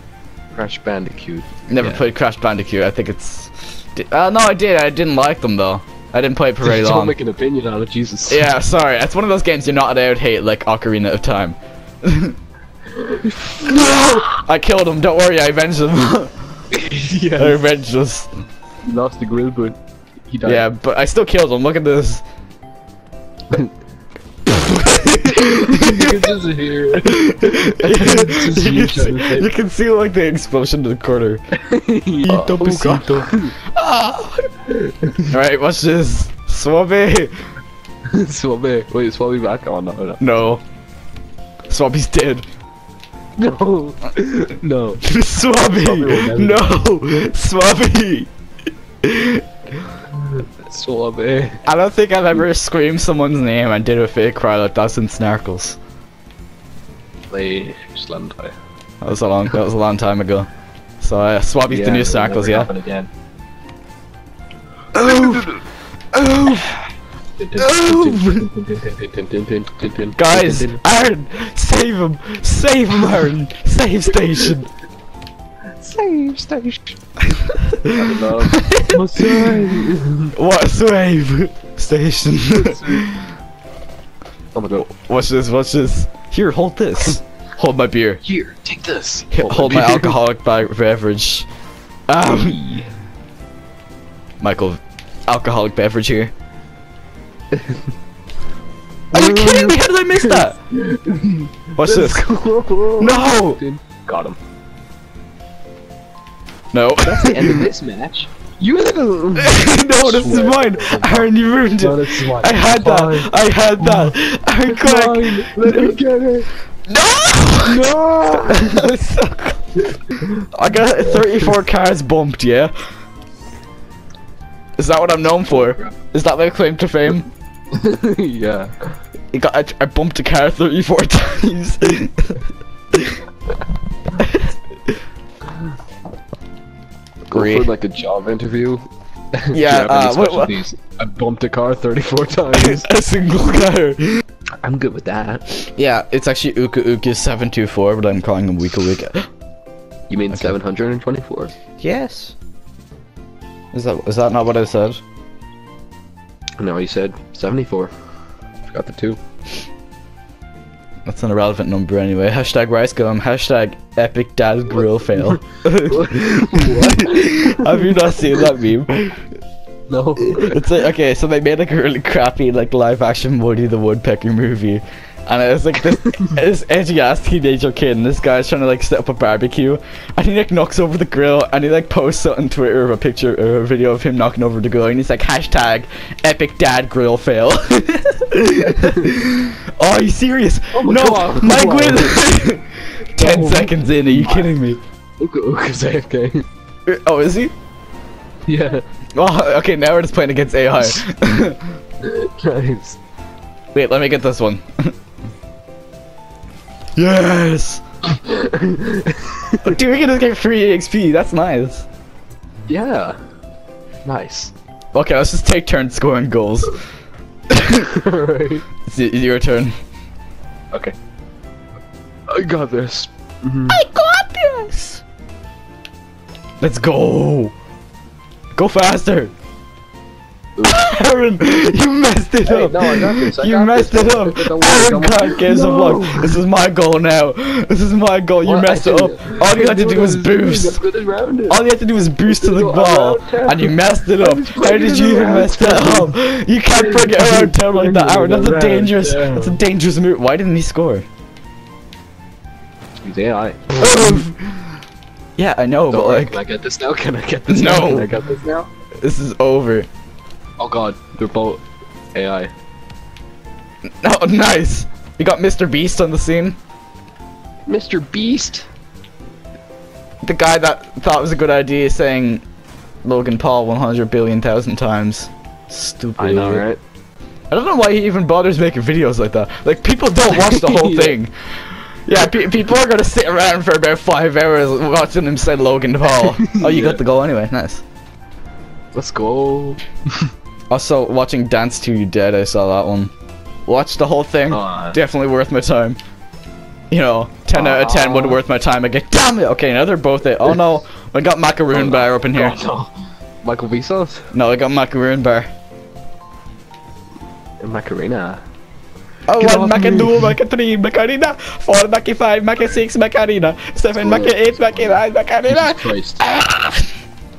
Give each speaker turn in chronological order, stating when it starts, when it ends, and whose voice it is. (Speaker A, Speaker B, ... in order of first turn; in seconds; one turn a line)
Speaker A: 0.5-2.0
Speaker B: 1.7-7.2
Speaker A: 6.7-8.5
Speaker B: 8.3-12.4
Speaker A: 13.0-13.8
Speaker B: 13.6-16.4
Speaker A: 16.7-17.6
Speaker B: 17.4-18.3
Speaker A: 18.9-20.6
Speaker B: 20.4-22.2
Speaker B: 24.5-26.2
Speaker A: 25.2-29.5
Speaker B: 27.0-31.4
Speaker A: 31.5-33.5
Speaker B: 32.2-34.5
Speaker A: 34.7-35.3
Speaker B: 35.3-37.3
Speaker A: 38.1-40.2
Speaker B: 40.2-40.6
Speaker B: 41.7-42.5
Speaker A: 43.4-46.8
Speaker B: 45.0-48.3
Speaker B: 49.0-49.5
Speaker A: 50.2-51.6
Speaker B: 51.7-55.8
Speaker A: 57.3-58.6
Speaker B: 59.0-60.5
Speaker B: 61.0-62.7
Speaker A: 61.7-63.1
Speaker B: 64.9-65.5
Speaker A: 65.0-65.6
Speaker B: 66.1-66.9
Speaker A: 67.4-70.8
Speaker B: 67.6-68.5
Speaker B: 70.2-74.7
Speaker A: 75.8-77.0
Speaker B: 77.2-83.2
Speaker A: 77.8-80.3
Speaker A: 82.5-83.2
Speaker A: 84.5-84.9
Speaker B: 84.8-88.2
Speaker A: 88.2-90.2
Speaker B: 89.3-91.5
Speaker B: 92.1-92.6
Speaker A: 92.3-92.9
Speaker B: 94.4-96.3
Speaker A: 97.5-97.8
Speaker B: 99.1-100.6
Speaker A: 99.1-104.4
Speaker B: 101.8-102.3
Speaker B: 103.0-103.6
Speaker B: 106.7-107.7
Speaker A: 107.0-114.1
Speaker B: 109.4-116.0
Speaker A: 114.7-116.5
Speaker B: 116.9-119.8
Speaker A: 117.7-118.9
Speaker A: 120.2-120.4
Speaker B: 120.5-122.7
Speaker B: 124.8-127.3
Speaker A: 125.5-125.9
Speaker A: 127.7-129.0
Speaker B: 129.3-133.2
Speaker B: 134.2-135.0
Speaker A: 137.3-142.9
Speaker B: 137.3-137.7
Speaker B: 139.5-140.6
Speaker B: 142.5-144.2
Speaker A: 144.6-145.6
Speaker B: 145.7-149.3
Speaker A: 150.1-151.5
Speaker B: 151.8-152.4
Speaker B: 153.7-155.0
Speaker A: 156.6-157.9
Speaker A: 158.7-159.2
Speaker B: 161.1-169.2
Speaker A: 165.4-168.1
Speaker A: 169.9-170.6
Speaker B: 170.2-194.8
Speaker A: 188.6-189.1
Speaker A: 190.7-192.2
Speaker A: 193.2-194.5
Speaker A: 195.2-196.5
Speaker B: 196.9-197.5
Speaker A: 198.5-198.8
Speaker B: 199.2-201.6
Speaker A: 202.0-203.0
Speaker B: 203.7-204.9
Speaker B: 207.0-207.8
Speaker A: 208.2-209.7
Speaker B: 209.6-211.9
Speaker A: 212.7-213.2
Speaker A: 214.1-214.5
Speaker B: 214.9-216.8
Speaker B: 217.5-217.9
Speaker A: 217.9-218.7
Speaker B: 218.8-219.8
Speaker A: 222.3-223.8
Speaker B: 223.7-225.0
Speaker B: 226.6-227.5
Speaker B: 228.5-229.3
Speaker A: 230.6-230.8
Speaker B: 230.7-240.8
Speaker A: 232.4-236.4
Speaker A: 238.4-241.6
Speaker B: 241.5-251.1
Speaker A: 242.3-246.2
Speaker A: 246.8-249.6
Speaker A: 253.0-254.3
Speaker B: 253.8-254.6
Speaker B: 255.4-256.4
Speaker A: 255.9-258.7
Speaker B: 257.5-258.1
Speaker B: 259.0-259.9
Speaker A: 260.6-261.6
Speaker A: 262.1-262.5
Speaker B: 263.9-266.6
Speaker A: 267.7-268.7
Speaker B: 270.2-272.4
Speaker B: 273.0-276.6
Speaker A: 276.2-276.8
Speaker B: 277.5-287.8
Speaker A: 280.3-281.1
Speaker A: 286.2-287.0
Speaker A: 288.9-290.3
Speaker B: 290.7-293.1
Speaker B: 293.7-296.0
Speaker A: 294.5-295.0
Speaker B: 296.9-302.6
Speaker A: 297.5-298.4
Speaker A: 301.7-302.9
Speaker A: 303.4-304.3
Speaker B: 304.3-305.5
Speaker A: 307.6-308.4
Speaker B: 309.3-316.9
Speaker A: 309.4-310.3
Speaker A: 314.0-316.2